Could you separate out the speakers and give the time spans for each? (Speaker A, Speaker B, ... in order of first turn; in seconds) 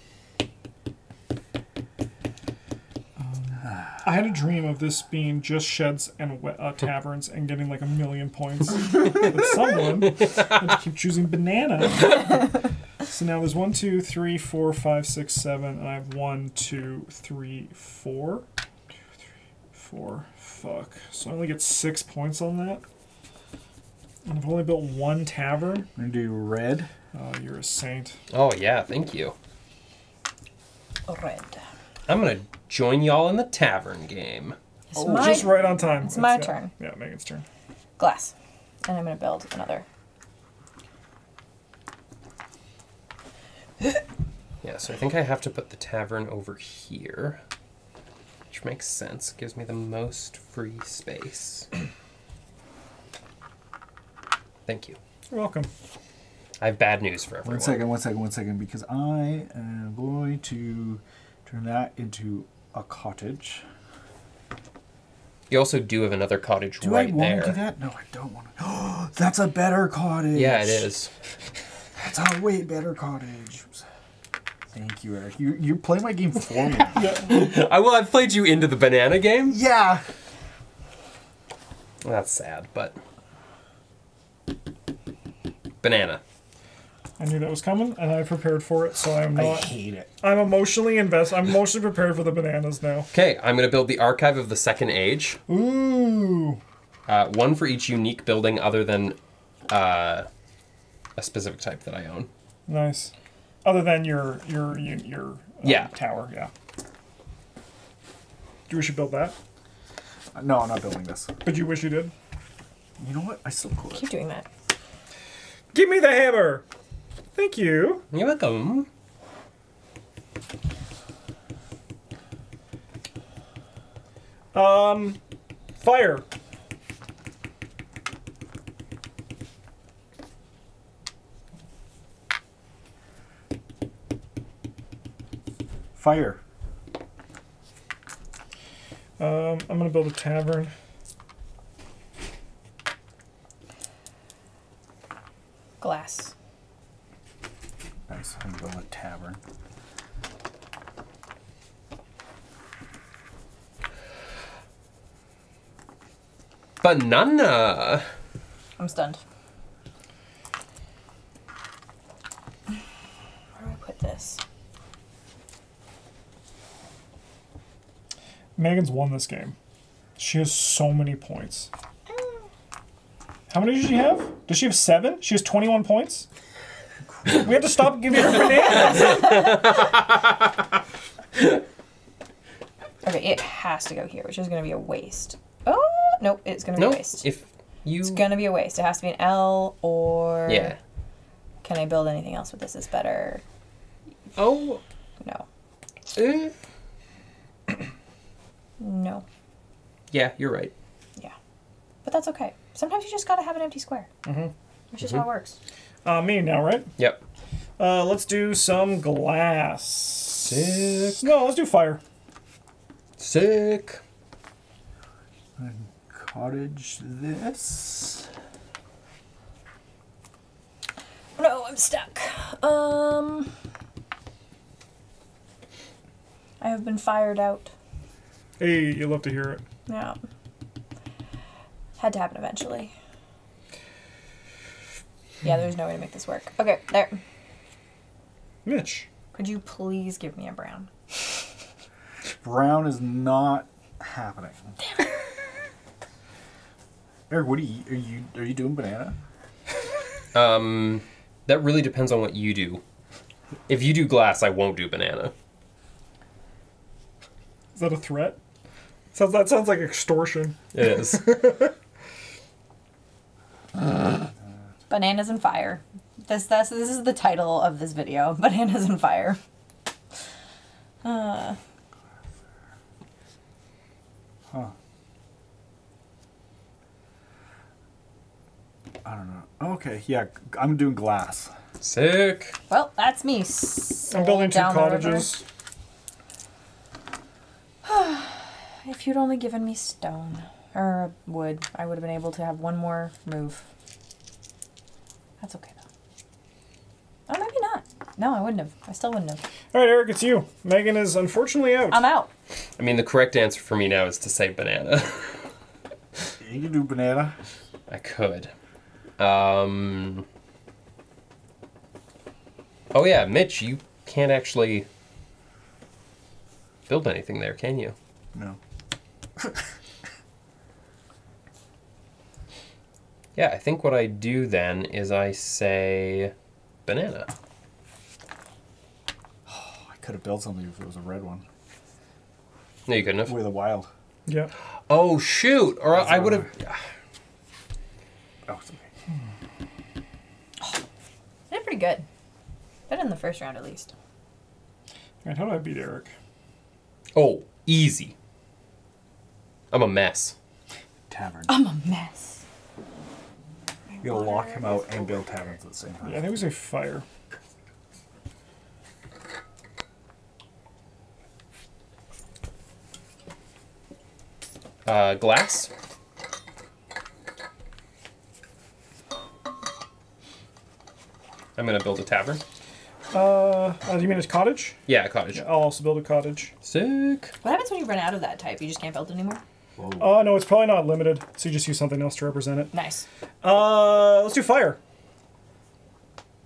Speaker A: 3.2-12.5, 13.1-18.4, 19.8-22.8, 24.2-25.9, 27.1-28.2, 35.1-37.4, 55.3-55.7, 77.0-77.3, 87.2-93.1, 95.5-96.6, 102.7-103.1, 103.6-106.5, 108.7-109.3, 111.4-112.1, 115.7-116.6, 117.3-118.0, 124.5-125.2, 125.8-126.2, 139.2-140.7, 168.6-169.6, 170.2-171.7, 173.5-176.3, 177.3-179.3, 204.2-204.5, 206.1-206.9, 207.8-212.0, 228.6-229.6, 238.6-239.1, 257.7-258.4, 259.1-261.7, 284.1-285.4, 299.7-302.1, 334.2-334.5, 345.2-346.1, 356.0-357.1, 373.1-374.8, 375.3-376.5, 380.0-382.7, 383.4-384.8
Speaker B: 25.9-26.9, 34.9-35.5, 57.4-63.6, 66.8-70.9, 72.0-73.8, 74.7-77.1, 79.5-80.0, 89.3-90.1, 110.3-111.3, 113.0-114.1, 135.9-136.4, 148.1-149.4, 177.1-177.5, 215.6-218.3, 242.4-244.8, 247.3-249.2, 279.0-281.5, 306.4-307.4, 319.4-319.6, 329.4-331.4, 333.2-333.9, 335.9-336.5, 338.4-338.9, 351.1-351.5, 354.0-356.4, 379.8-380.2
Speaker C: 28.3-29.4, 32.1-34.6, 44.6-47.4, 48.5-51.7, 54.6-55.0, 56.6-57.8, 65.5-67.6, 70.3-71.1, 77.2-79.6, 82.0-83.0, 85.8-86.2, 93.1-95.4, 97.1-99.2, 99.7-100.3, 101.2-102.3, 105.6-105.9, 118.1-118.9, 156.8-158.1, 179.1-179.8, 186.8-188.4, 190.5-190.8, 194.4-194.8, 196.1-196.5, 200.1-200.7, 210.4-211.3, 213.2-214.0, 250.3-252.8, 253.7-255.3, 260.7-261.5, 281.8-282.6, 302.8-305.5, 307.9-308.5, 309.2-310.2, 312.9-314.9, 316.9-317.9, 323.4-326.3, 326.9-327.3, 332.9-333.4, 334.9-336.8, 347.1-348.1, 349.7-350.4, 364.9-365.7, 371.6-372.4, 374.9-375.4, 376.6-377.3
Speaker D: 31.1-31.6, 34.9-36.7, 38.0-38.3, 38.9-39.9, 113.9-114.5, 145.8-146.3, 158.8-159.2, 163.6-164.4, 183.0-187.2, 188.0-190.7, 191.6-193.4, 198.8-199.2, 202.0-204.1, 204.9-205.6, 221.4-223.5, 226.6-227.7, 229.9-230.2, 232.0-232.9, 235.4-237.2, 239.3-240.9, 264.9-269.4, 271.0-271.6, 282.7-285.4, 287.8-293.6, 295.4-295.8, 297.3-299.4, 301.9-302.3, 341.5-342.1, 342.9-343.9, 351.5-352.4, 353.9-355.4, 377.4-379.4, 382.7-383.1